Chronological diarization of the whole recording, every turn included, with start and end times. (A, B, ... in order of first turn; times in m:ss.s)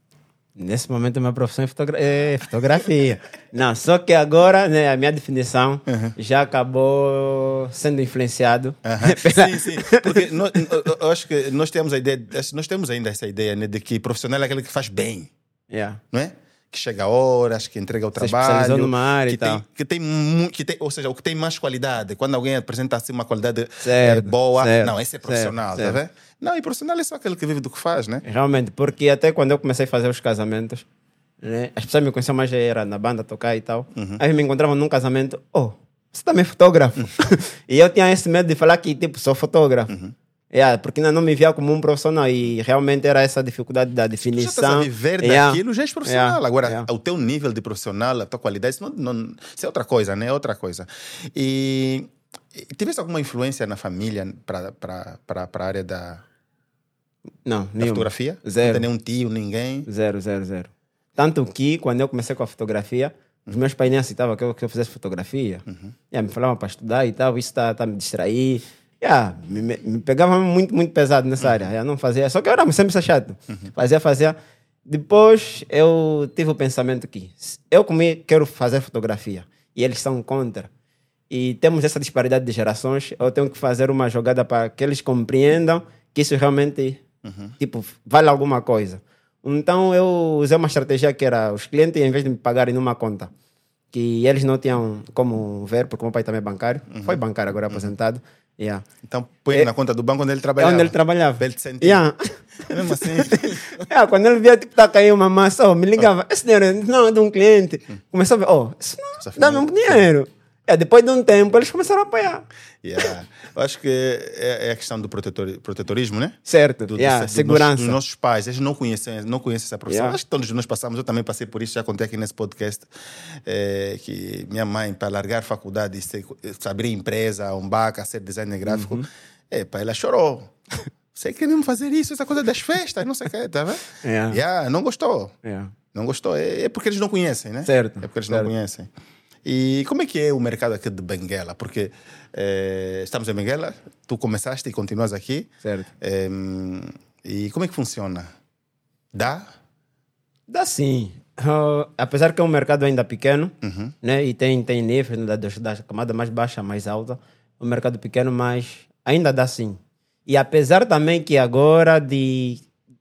0:00.6-0:10.4 A
0:05.9-0:06.1 B
0:08.8-0:15.3 B
0:15.7-0:16.0 A
0:16.1-0:28.2 B
0:18.2-0:19.6 A
0:23.8-0:26.0 A
0:28.2-0:30.8 A
0:31.4-0:40.0 A
0:33.9-0:34.2 B
0:39.9-0:40.1 B
0:40.5-0:46.9 A
0:44.3-0:56.2 B
0:57.4-0:58.8 A
0:57.8-0:59.9 B
0:59.8-1:14.4 A
1:05.7-1:05.9 B
1:14.9-1:20.7 A
1:21.3-1:27.0 A
1:27.2-1:27.5 B
1:27.6-1:33.3 A
1:33.9-1:38.8 A
1:36.9-1:37.9 B
1:39.0-1:42.0 B
1:40.6-1:52.4 A
1:42.6-1:43.8 B
1:49.2-1:50.1 B
1:52.8-2:02.9 B
1:56.4-1:58.0 A
1:59.9-2:00.2 A
2:03.4-2:10.5 B
2:08.6-2:09.1 A
2:11.1-2:15.3 B
2:14.0-2:14.4 A
2:15.4-2:15.7 A
2:15.9-2:18.9 B
2:17.6-2:18.5 A
2:19.4-2:28.3 B
2:25.6-2:25.9 A
2:29.1-2:29.5 B
2:30.5-2:42.6 A
2:33.6-2:33.9 B